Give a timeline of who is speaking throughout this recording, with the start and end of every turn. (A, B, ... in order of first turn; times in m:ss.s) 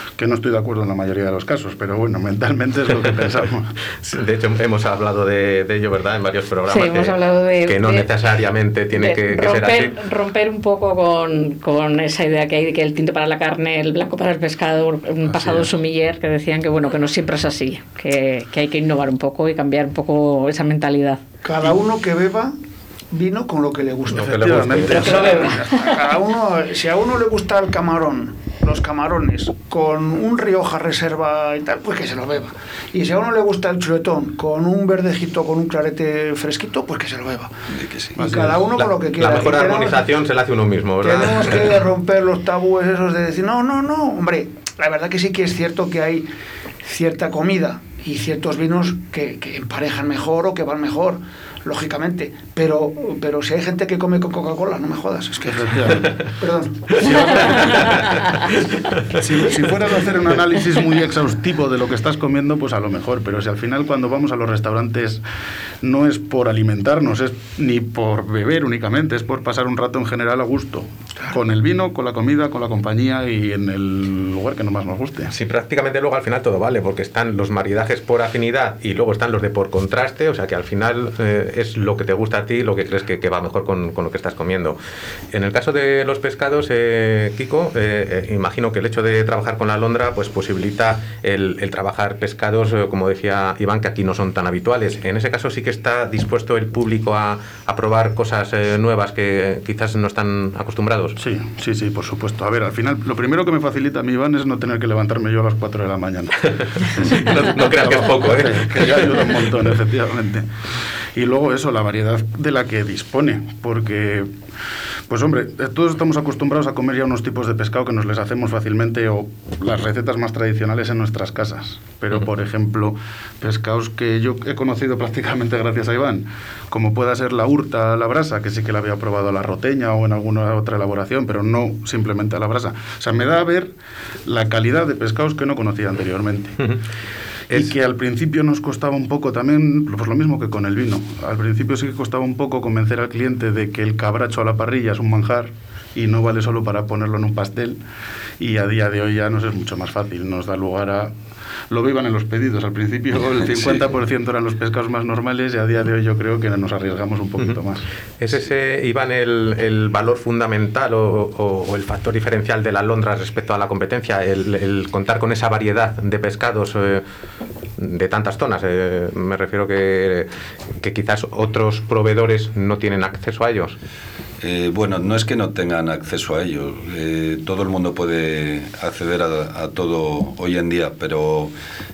0:00.2-0:03.7 A
0:04.0-0:09.9 B
0:06.7-0:08.1 C
0:08.9-0:21.2 C
0:21.4-0:22.5 D
0:23.1-0:37.5 D
0:24.1-0:25.2 B
0:24.1-0:25.4 A
0:24.9-0:25.9 C
0:37.7-0:38.2 E
0:38.2-0:40.1 D
0:38.2-0:38.5 A
0:38.8-0:41.7 B
0:41.0-0:46.3 D
0:46.8-0:57.8 D
0:55.5-0:56.1 A
0:57.0-0:58.0 A
0:59.1-1:05.2 A
1:05.8-1:15.3 A
1:15.3-1:24.8 B
1:25.3-1:41.2 B
1:41.2-1:50.4 A
1:47.0-1:49.3 B
1:51.1-1:54.3 A
1:55.1-2:13.7 A
2:14.2-2:16.6 A
2:17.5-2:27.8 A
2:28.4-2:31.1 A
2:31.7-2:37.8 A
2:38.2-2:47.0 B
2:47.8-2:50.3 B
2:50.8-2:53.8 B
2:54.4-3:01.5 E